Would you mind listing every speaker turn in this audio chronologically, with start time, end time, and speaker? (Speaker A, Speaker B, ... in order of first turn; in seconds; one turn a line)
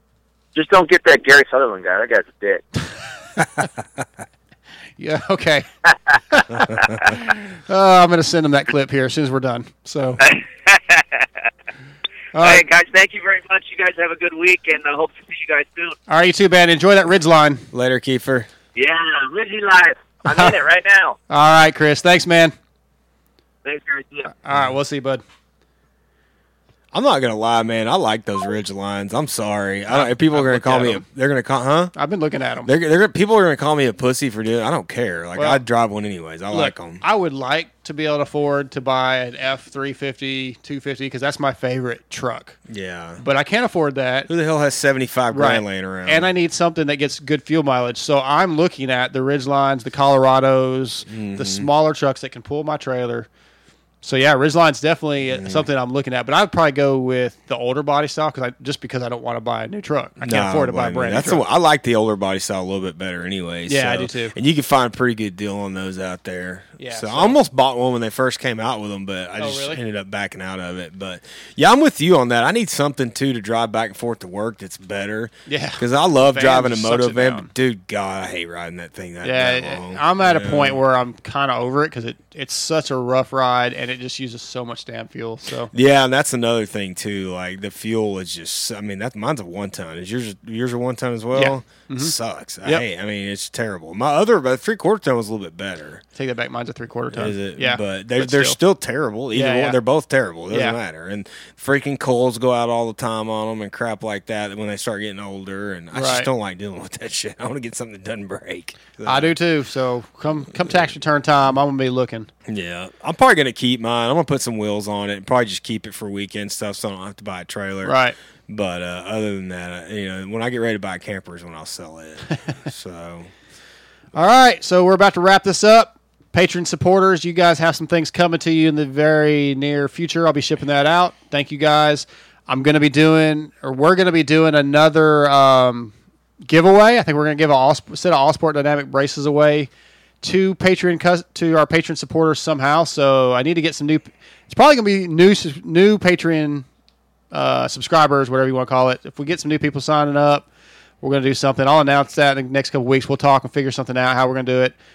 Speaker A: 0.5-2.6
Speaker B: 5.0-5.7
Speaker B: 6.3-6.6
Speaker A: 6.8-7.1
Speaker B: 7.7-10.2
Speaker A: 10.2-11.3
Speaker B: 12.3-12.6
Speaker A: 12.4-16.0
Speaker B: 16.1-17.6
Speaker C: 17.7-18.5
Speaker A: 18.8-21.2
Speaker B: 21.3-22.5
Speaker A: 23.6-24.3
Speaker B: 24.4-25.2
Speaker C: 26.9-31.9
Speaker B: 29.9-31.0
Speaker B: 31.9-32.7
Speaker C: 32.6-37.0
Speaker B: 35.4-35.6
Speaker B: 36.5-42.6
Speaker C: 42.7-43.2
Speaker B: 43.2-44.3
Speaker C: 44.3-46.3
Speaker B: 45.3-53.3
Speaker C: 51.1-51.7
Speaker B: 54.0-61.4
Speaker C: 55.3-55.6
Speaker C: 60.2-80.8
Speaker B: 63.7-64.3
Speaker B: 66.8-67.4
Speaker B: 69.4-69.8
Speaker B: 75.5-77.5
Speaker B: 79.2-85.7
Speaker C: 85.7-96.0
Speaker B: 91.3-92.8
Speaker B: 96.1-98.6
Speaker C: 97.1-109.3
Speaker B: 99.3-99.8
Speaker B: 100.5-100.8
Speaker B: 105.9-106.3
Speaker B: 109.0-112.3
Speaker C: 112.5-123.3
Speaker B: 117.8-118.2
Speaker B: 124.1-135.9
Speaker B: 136.5-139.7
Speaker B: 140.2-146.7
Speaker B: 147.3-150.5
Speaker B: 151.0-154.7